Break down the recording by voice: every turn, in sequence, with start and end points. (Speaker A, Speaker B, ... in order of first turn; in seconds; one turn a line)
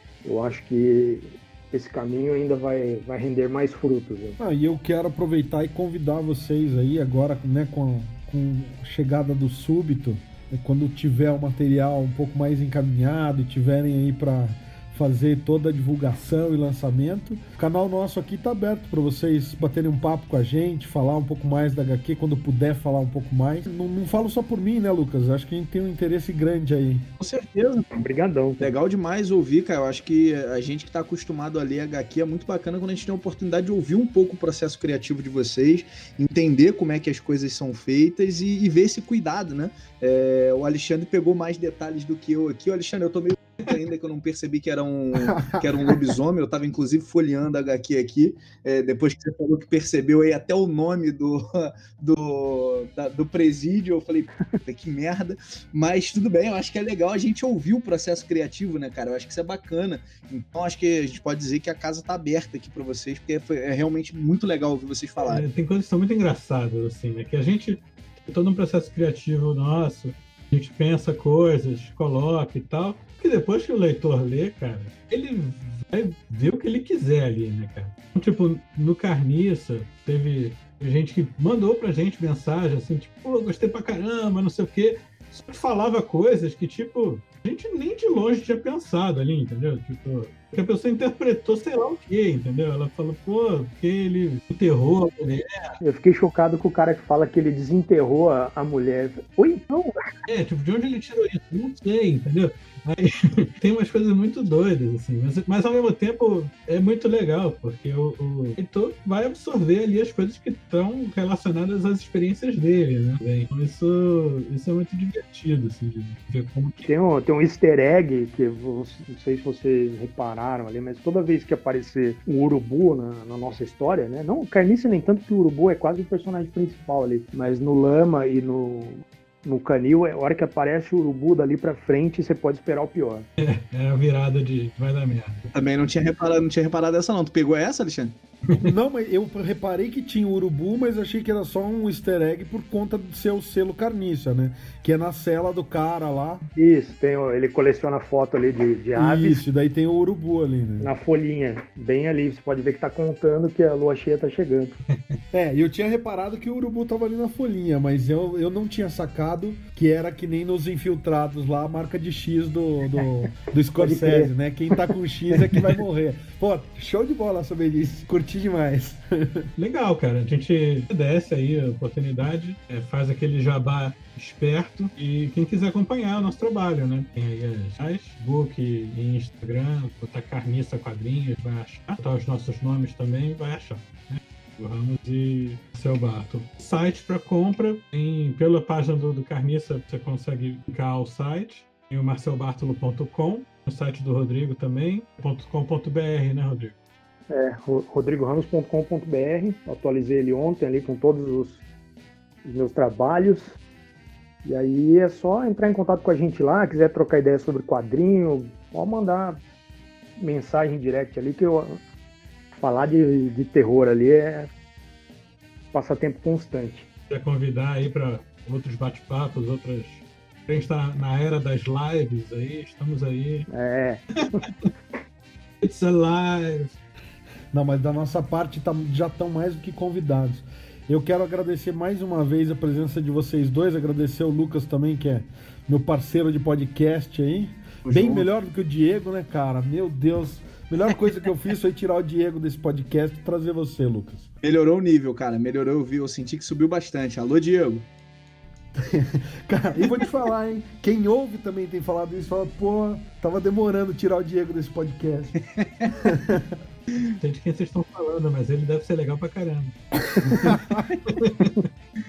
Speaker A: 0.2-4.4
Speaker B: 4.4-27.1
Speaker C: 27.2-27.9
Speaker A: 27.9-28.7
Speaker C: 28.6-65.4
Speaker B: 45.2-45.6
Speaker D: 65.2-95.8
Speaker A: 95.8-99.9
Speaker D: 100.3-116.9
Speaker A: 116.9-133.3
Speaker D: 133.4-135.4
Speaker C: 135.5-138.2
Speaker B: 138.5-146.5
Speaker A: 146.6-149.4
Speaker B: 148.9-150.9
Speaker A: 150.8-154.7
Speaker D: 154.9-155.2
Speaker B: 155.3-169.5
Speaker A: 163.8-164.9
Speaker D: 169.6-196.8
Speaker A: 197.3-201.6
Speaker A: 202.4-203.6
Speaker A: 204.4-209.4
Speaker A: 210.2-211.8
Speaker A: 212.6-214.5
Speaker A: 215.7-216.9
Speaker D: 217.1-223.5
Speaker A: 223.5-224.4
Speaker D: 224.2-224.7
Speaker D: 225.6-226.8
Speaker B: 227.5-244.3
Speaker C: 237.8-238.3
Speaker C: 244.4-247.9
Speaker B: 248.7-255.3
Speaker C: 255.6-256.0
Speaker B: 256.0-256.6
Speaker D: 257.2-261.6
Speaker B: 260.1-260.9